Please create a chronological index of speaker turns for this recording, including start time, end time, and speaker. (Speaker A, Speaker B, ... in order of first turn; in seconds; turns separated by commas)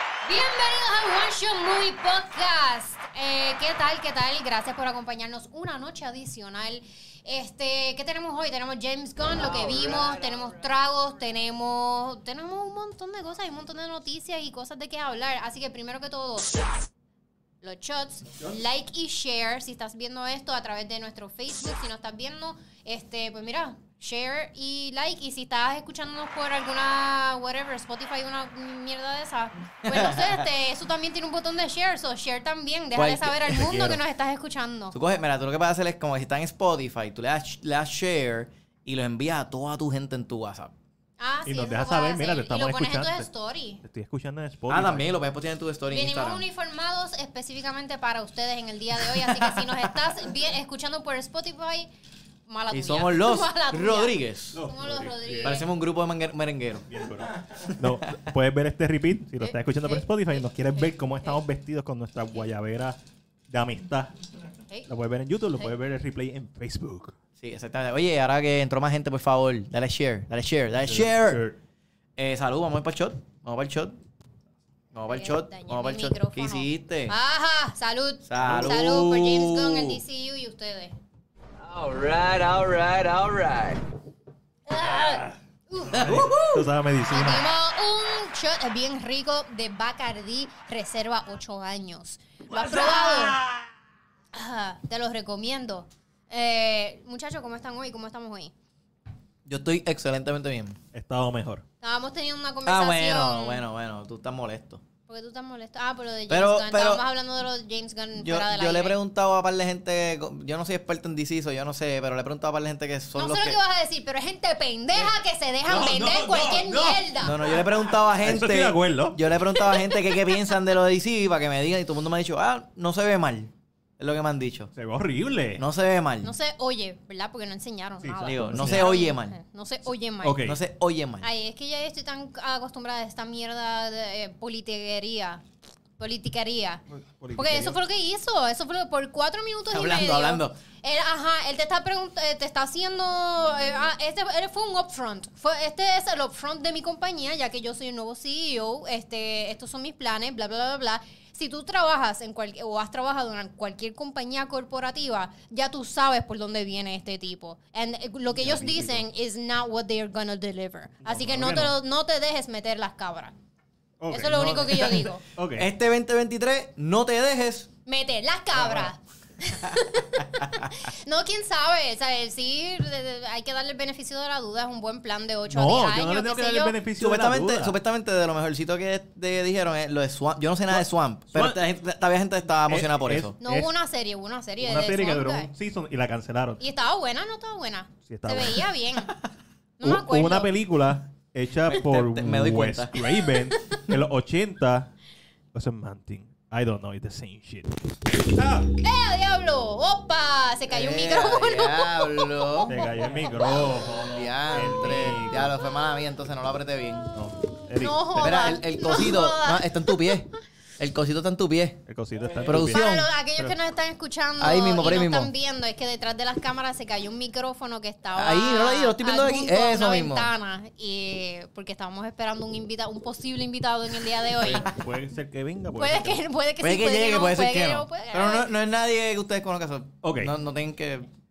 Speaker A: 0.2-16.9, Speaker B: 9.4-10.6, Speaker A: 17.6-34.9, Speaker C: 29.8-30.5, Speaker C: 32.9-34.0, Speaker C: 34.9-40.7, Speaker A: 41.2-43.8, Speaker D: 41.5-43.3, Speaker D: 43.8-45.2, Speaker C: 44.7-46.4, Speaker A: 45.9-51.9, Speaker C: 49.0-49.9, Speaker A: 52.5-55.7, Speaker C: 52.7-54.6, Speaker D: 54.5-55.5, Speaker C: 55.4-56.9, Speaker D: 56.9-63.0, Speaker C: 57.7-58.0, Speaker A: 59.4-61.4, Speaker D: 63.5-64.2, Speaker D: 64.8-67.2, Speaker C: 67.4-71.4, Speaker D: 70.8-71.6, Speaker C: 72.2-74.0, Speaker C: 74.9-77.2, Speaker A: 75.1-80.9, Speaker C: 78.3-80.0, Speaker B: 81.6-83.8, Speaker A: 84.7-86.1, Speaker D: 85.0-85.3, Speaker D: 85.9-87.5, Speaker C: 85.9-86.3, Speaker A: 87.1-93.4, Speaker C: 92.5-93.6, Speaker A: 94.3-98.5, Speaker C: 99.5-100.8, Speaker D: 100.9-101.6, Speaker A: 101.8-103.6, Speaker C: 102.6-104.8, Speaker A: 105.1-109.0, Speaker C: 106.3-107.0, Speaker C: 108.2-113.6, Speaker A: 113.2-117.4, Speaker D: 115.7-119.2, Speaker C: 117.2-124.7, Speaker A: 119.7-120.2, Speaker D: 124.7-125.6, Speaker C: 125.6-126.3, Speaker A: 126.2-130.4, Speaker D: 128.0-128.9, Speaker C: 128.2-129.4, Speaker D: 130.2-130.6, Speaker C: 130.4-131.3, Speaker A: 131.2-135.4, Speaker A: 136.0-136.8, Speaker D: 136.9-137.8, Speaker A: 137.3-163.3, Speaker C: 139.7-140.6, Speaker D: 158.3-159.0, Speaker D: 161.0-161.7, Speaker D: 164.0-165.7, Speaker A: 164.1-165.2, Speaker C: 165.6-167.7, Speaker A: 167.8-176.8, Speaker D: 168.5-168.9, Speaker D: 175.5-177.8, Speaker C: 177.0-183.3, Speaker D: 180.7-181.6, Speaker D: 182.6-183.7, Speaker A: 183.4-185.5, Speaker D: 184.6-186.6, Speaker A: 186.6-189.1, Speaker D: 188.1-188.7, Speaker A: 189.8-190.5, Speaker D: 189.8-194.9, Speaker C: 191.7-193.2, Speaker D: 195.5-197.7, Speaker D: 198.3-198.7, Speaker A: 198.8-202.7, Speaker C: 200.7-202.8, Speaker D: 202.7-205.5, Speaker C: 203.9-207.1, Speaker D: 207.1-208.0, Speaker A: 207.8-210.2, Speaker C: 208.1-211.8, Speaker D: 211.9-213.5, Speaker C: 212.4-213.1, Speaker A: 212.5-224.7, Speaker C: 214.4-215.3, Speaker C: 218.1-220.3, Speaker D: 224.4-226.2, Speaker A: 225.8-228.5, Speaker C: 226.6-231.1, Speaker D: 230.0-230.3